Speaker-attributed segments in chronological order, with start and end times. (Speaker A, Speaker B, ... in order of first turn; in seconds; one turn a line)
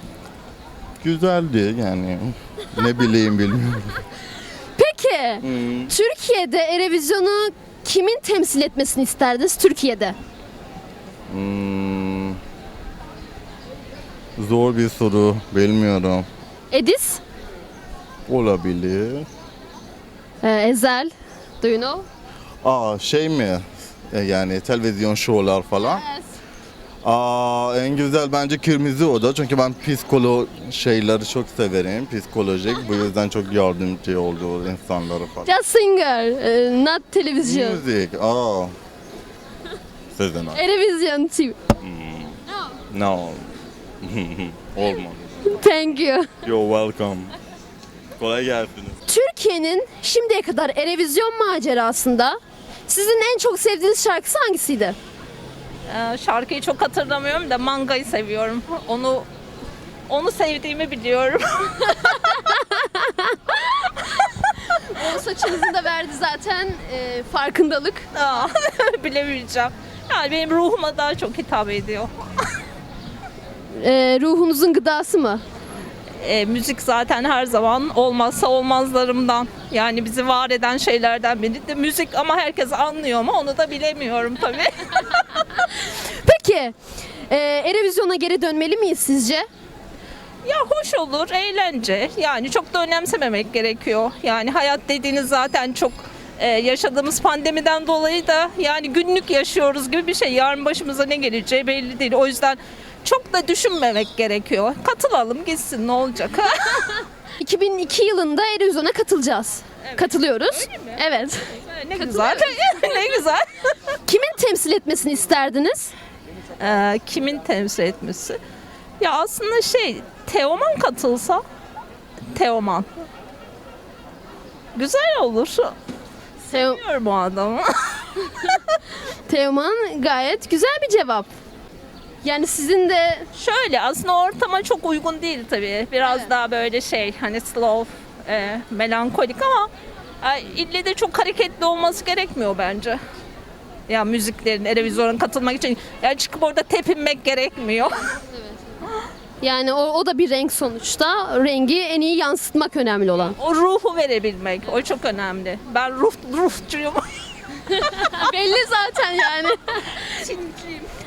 Speaker A: 1.0-4.0
Speaker B: 4.8-10.2
Speaker A: 5.4-5.9
Speaker A: 11.3-12.4
Speaker A: 14.4-16.3
Speaker B: 16.7-17.2
Speaker A: 18.3-19.3
Speaker B: 20.4-22.1
Speaker A: 22.6-26.0
Speaker B: 25.8-26.3
Speaker A: 27.0-35.5
Speaker B: 35.5-37.8
Speaker A: 37.4-38.7
Speaker A: 40.1-40.6
Speaker B: 40.5-41.6
Speaker A: 41.8-42.4
Speaker A: 42.9-43.5
Speaker A: 44.0-45.5
Speaker B: 45.5-46.3
Speaker A: 46.4-47.3
Speaker A: 48.2-49.0
Speaker B: 49.1-55.0
Speaker C: 55.9-59.3
Speaker C: 60.1-62.3
Speaker B: 62.2-64.0
Speaker B: 64.7-68.1
Speaker C: 68.1-72.1
Speaker B: 73.8-75.4
Speaker C: 76.2-85.6
Speaker B: 85.9-86.8
Speaker B: 87.3-89.5
Speaker C: 90.5-106.9
Speaker B: 107.4-113.0
Speaker C: 109.9-111.0
Speaker C: 111.7-113.7
Speaker B: 114.1-115.9
Speaker C: 116.6-118.4
Speaker C: 119.0-121.4
Speaker C: 122.3-122.9
Speaker C: 124.8-125.7
Speaker C: 126.5-128.6
Speaker B: 126.5-126.8
Speaker B: 129.3-131.3
Speaker B: 132.2-133.3
Speaker C: 133.3-139.7
Speaker C: 140.2-143.0
Speaker C: 143.9-148.2
Speaker B: 149.4-153.4
Speaker C: 153.4-157.1
Speaker B: 157.8-160.2
Speaker C: 160.2-160.8